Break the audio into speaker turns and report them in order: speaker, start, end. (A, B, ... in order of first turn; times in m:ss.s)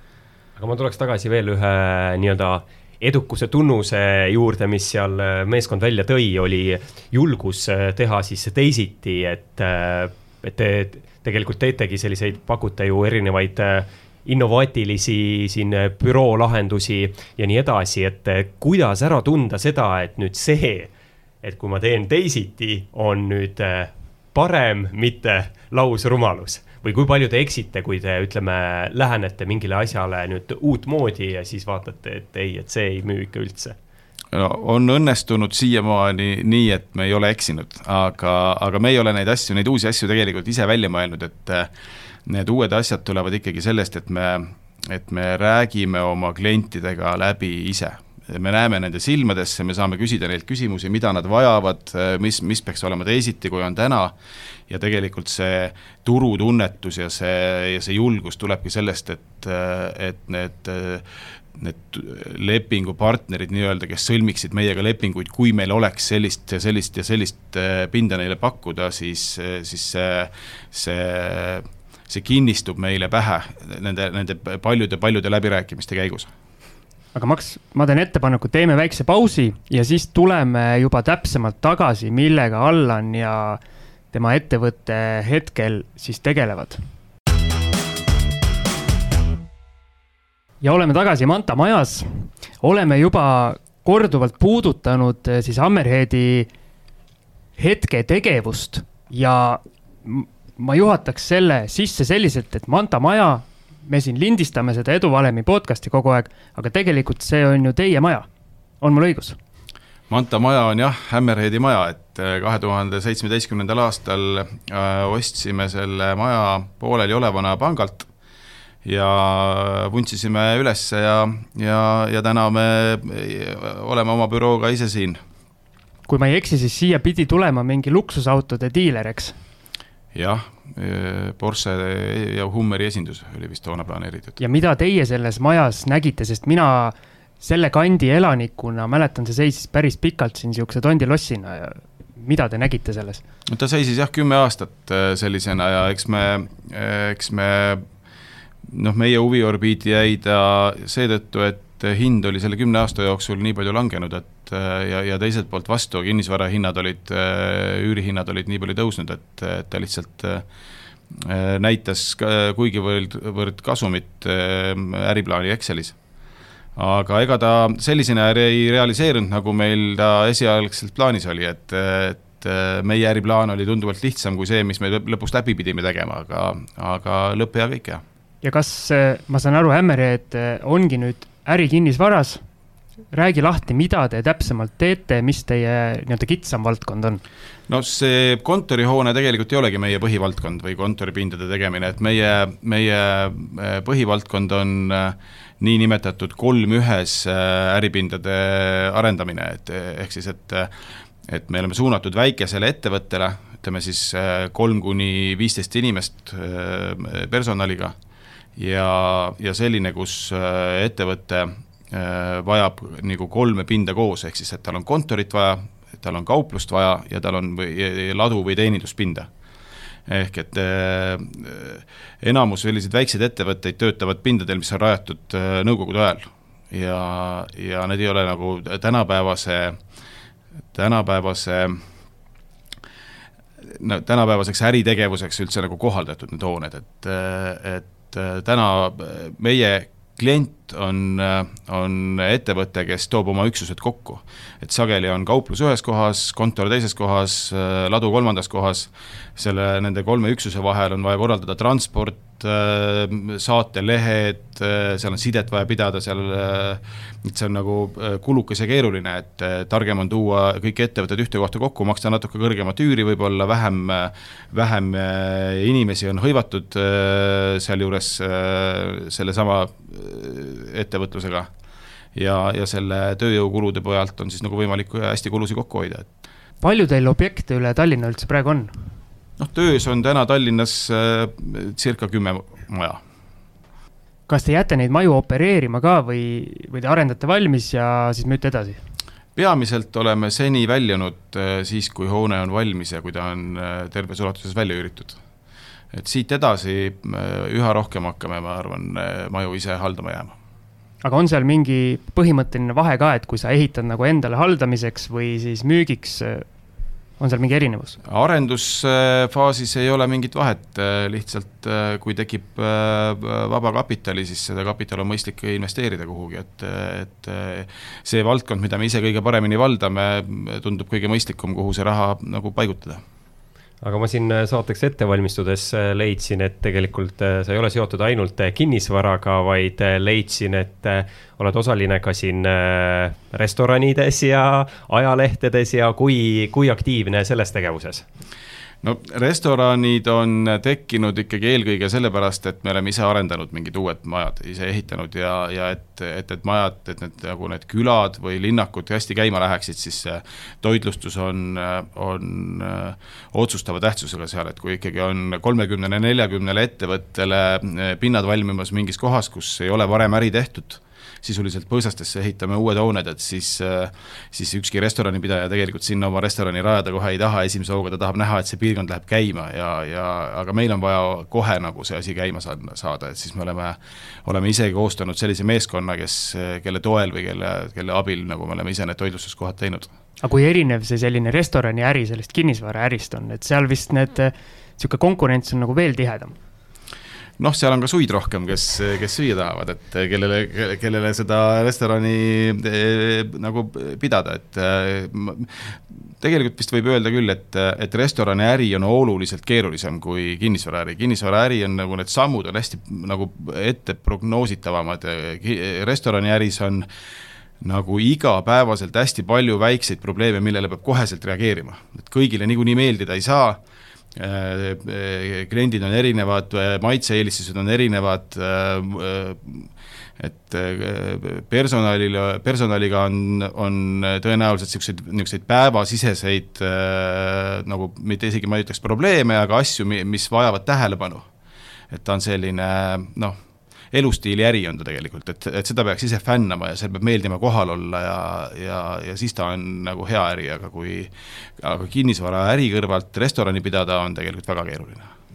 0:00.6-0:20.9 A
0:21.4-0:33.8 A
0:34.3-0:41.7 B
0:42.2-0:54.1 B
0:54.7-1:16.3 B
1:17.1-1:23.6 C
1:24.1-1:26.8 C
1:30.6-1:36.5 C
1:37.6-1:48.3 C
1:48.8-1:49.4 C
1:50.1-1:58.1 B
1:58.8-2:05.2 B
2:06.1-2:09.4 C
2:10.1-2:14.4 B
2:14.4-2:23.2 C
2:23.5-2:27.8 B
2:28.7-2:40.4 B
2:41.1-2:46.0 B
2:46.8-2:58.0 B
2:58.4-3:02.4 C
3:03.1-3:07.2 C
3:07.7-3:20.7 B
3:21.2-3:27.9 B
3:28.6-3:39.3 B
3:40.1-3:49.8 B
3:50.7-3:51.8 B
3:53.6-4:31.5 B
4:32.2-4:36.1 B
4:36.6-4:38.7 C
4:39.4-4:43.0 B
4:44.3-4:48.8 C
4:49.4-4:55.2 B
4:55.9-5:00.4 B
5:01.0-5:06.5 C
5:07.2-5:08.0 C
5:08.1-5:23.0 B
5:23.8-5:38.0 A
5:38.8-6:19.9 B
6:20.2-6:26.3 C
6:27.4-6:46.9 B
6:47.6-6:53.6 B
6:54.2-7:11.3 B
7:11.9-7:13.4 B
7:13.9-7:25.1 B